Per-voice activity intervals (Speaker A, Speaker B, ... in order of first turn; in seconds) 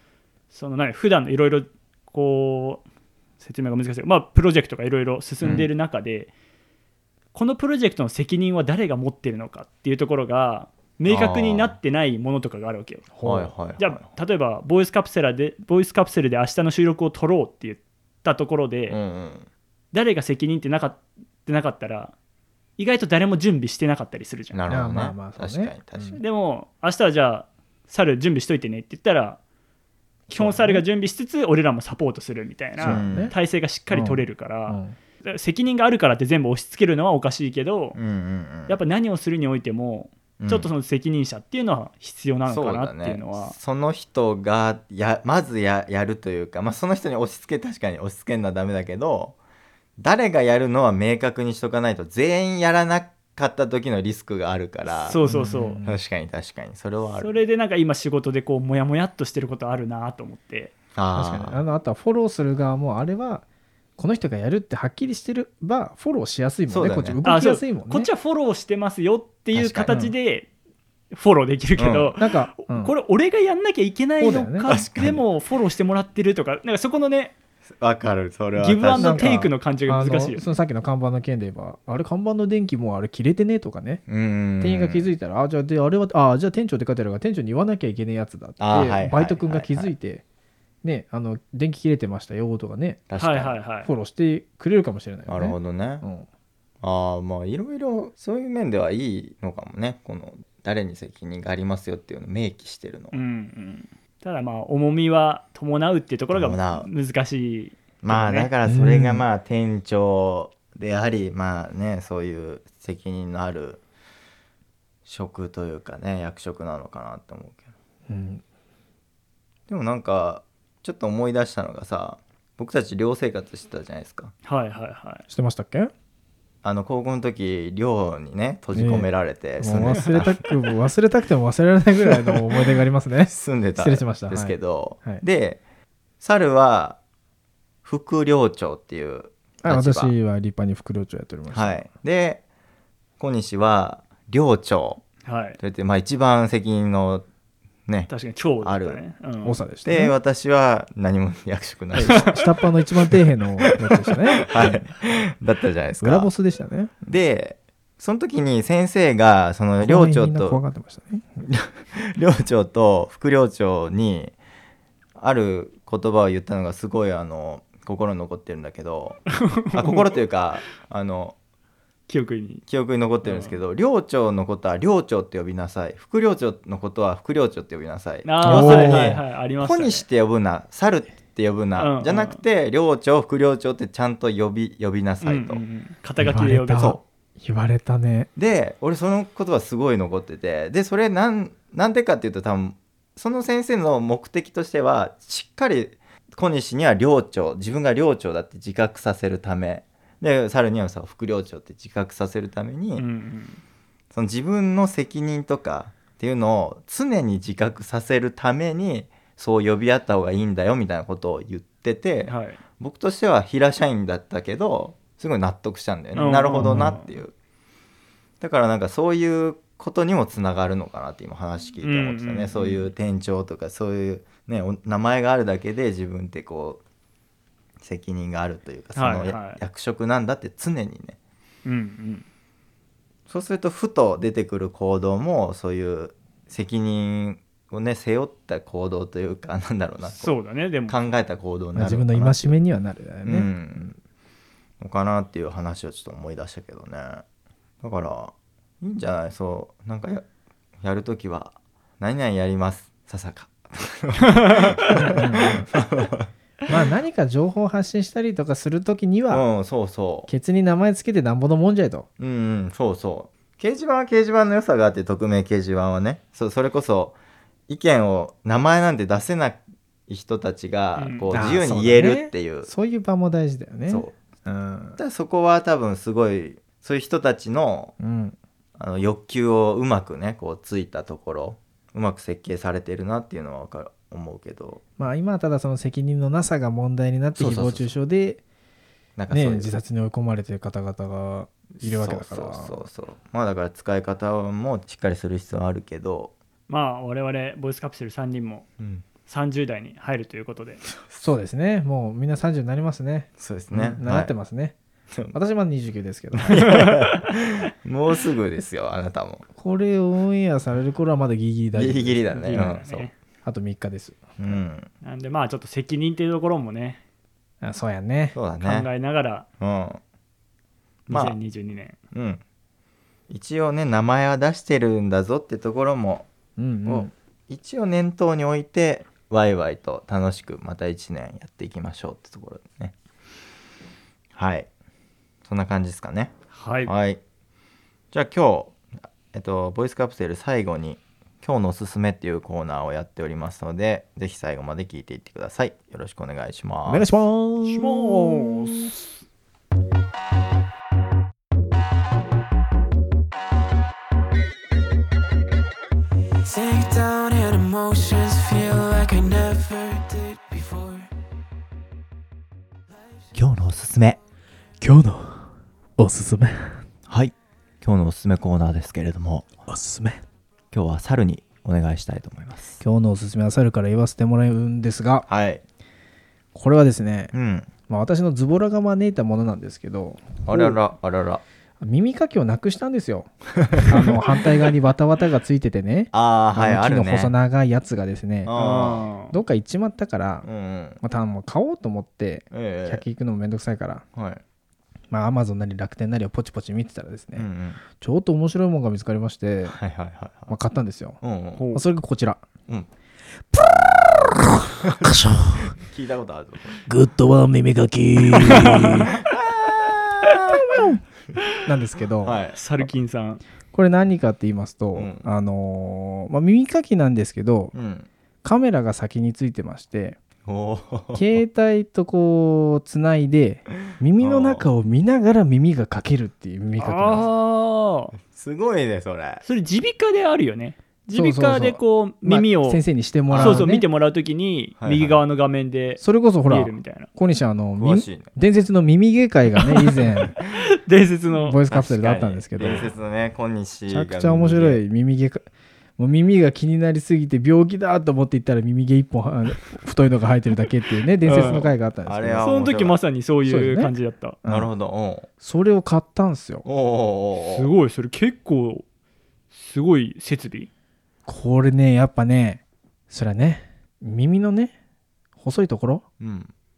Speaker A: 0.5-2.8, 3.4-6.3, 7.3-13.1, 13.8-19.0, 19.9-22.1, 22.8-24.6, 26.2-29.4, 30.3-38.0, 38.7-43.5, 55.0-55.8, 57.2-60.7, 67.2-70.5, 71.1-77.3, 78.6-80.5, 93.2-93.9, 103.1-108.5, 124.4-125.2, 145.2-145.6, 148.1-149.6, 169.3-170.1, 172.1-172.6, 173.2-173.6, 178.2-180.0, 181.8-182.4, 185.2-187.0, 202.9-203.6, 212.2-212.6, 216.1-217.2, 221.8-222.9, 228.9-229.6, 231.6-232.2, 240.1-240.9, 254.3-254.9, 271.0-271.3, 296.7-298.7, 299.2-300.8, 306.6-307.0, 312.4-313.1, 315.0-317.0, 318.6-319.4, 321.1-322.0, 336.5-336.9, 347.6-349.0, 388.5-389.4, 401.5-401.8, 408.3-409.1, 412.5-413.4, 426.8-428.1, 429.4-437.1, 439.6-441.6, 442.6-442.9, 451.2-451.7, 452.4-454.4, 457.4-458.8, 459.5-460.7
Speaker B: 5.4-5.7, 11.1-11.8, 13.2-14.1, 18.9-19.5, 24.5-26.2, 32.8-33.3, 37.9-38.8, 40.4-40.7, 42.5-49.4, 50.0-55.2, 55.8-57.4, 60.9-61.6, 66.7-67.2, 69.5-70.0, 71.8-72.2, 74.7-75.2, 77.8-79.4, 84.1-85.1, 88.6-89.9, 93.1-93.6, 95.3-96.0, 96.8-103.2, 106.3-106.9, 108.0-113.8, 115.0-117.6, 119.7-124.3, 126.6-130.4, 133.3-135.6, 136.2-137.0, 137.8-140.1, 141.5-142.4, 143.2-145.0, 145.6-147.2, 148.6-149.0, 149.8-152.4, 153.1-156.3, 157.0-160.6, 161.4-164.3, 165.2-169.2, 169.7-171.3, 172.7-185.6, 188.3-203.0, 204.1-217.3, 218.4-226.8, 227.8-231.2, 233.3-240.3, 240.9-242.5, 243.2-243.9, 244.8-247.2, 247.8-250.2, 250.8-256.7, 259.3-260.3, 262.2-267.1, 267.7-272.7, 273.9-274.1, 274.9-277.9, 278.8-284.8, 287.4-287.9, 289.2-289.8, 291.8-296.3, 298.8-299.0, 300.9-301.3, 303.4-304.3, 306.4-309.4, 311.7-313.1, 314.4-314.9, 318.3-318.9, 319.6-320.0, 321.1-321.3, 322.1-322.4, 323.3-326.3, 326.9-332.9, 334.3-334.7, 335.5-336.3, 336.8-337.2, 338.1-338.8, 339.3-347.1, 363.3-364.2, 367.1-369.5, 370.7-372.8, 375.3-375.6, 377.3-377.7, 380.4-381.4, 383.6-384.1, 386.1-387.3, 388.4-389.1, 390.4-391.0, 392.5-393.0, 394.1-394.4, 397.3-397.8, 399.7-400.5, 401.2-401.6, 403.5-404.3, 404.8-406.8, 408.8-410.9, 412.2-412.9, 414.9-415.3, 417.7-418.1, 420.4-421.4, 423.9-424.6, 428.3-429.4, 433.3-433.7, 434.8-435.2, 437.8-438.3, 441.7-444.8, 451.3-453.0, 454.4-455.3, 456.6-457.7, 466.2-466.5
Speaker C: 13.1-13.5, 24.7-26.2, 30.4-30.8, 32.8-33.3, 33.9-35.0, 55.2-56.0, 61.1-63.4, 64.0-68.1, 69.9-70.1, 72.2-72.9, 74.2-74.7, 78.9-84.0, 84.6-90.2, 90.8-93.0, 93.8-96.3, 108.6-109.2, 118.1-118.4, 125.3-125.9, 128.7-129.1, 129.6-135.2, 139.6-141.8, 149.4-150.1, 151.9-154.8, 156.0-157.0, 159.8-161.4, 178.4-179.2, 186.2-188.3, 216.6-216.9, 241.7-243.5, 254.9-255.7, 256.7-259.4, 260.3-262.1, 271.3-275.0, 278.0-278.4, 285.0-288.4, 289.3-292.9, 301.2-304.8, 305.3-306.7, 309.6-312.8, 313.4-314.6, 317.6-318.3, 326.6-327.1, 346.9-348.9, 364.8-366.8, 369.7-370.2, 372.8-375.2, 376.5-377.3, 377.9-380.8, 381.8-388.6, 389.3-390.5, 391.0-394.0, 395.1-399.8, 400.5-401.2, 401.7-402.4, 403.5-405.7, 406.9-409.1, 410.4-411.0, 411.6-412.4, 413.7-417.7, 418.4-420.2, 421.1-427.2, 431.1-433.9, 436.0-440.4, 441.4-442.9, 443.9-445.4, 446.0-452.5, 453.5-453.9, 454.4-454.7, 455.4-456.6, 461.2-464.7, 465.4-466.0
Speaker D: 356.4-361.1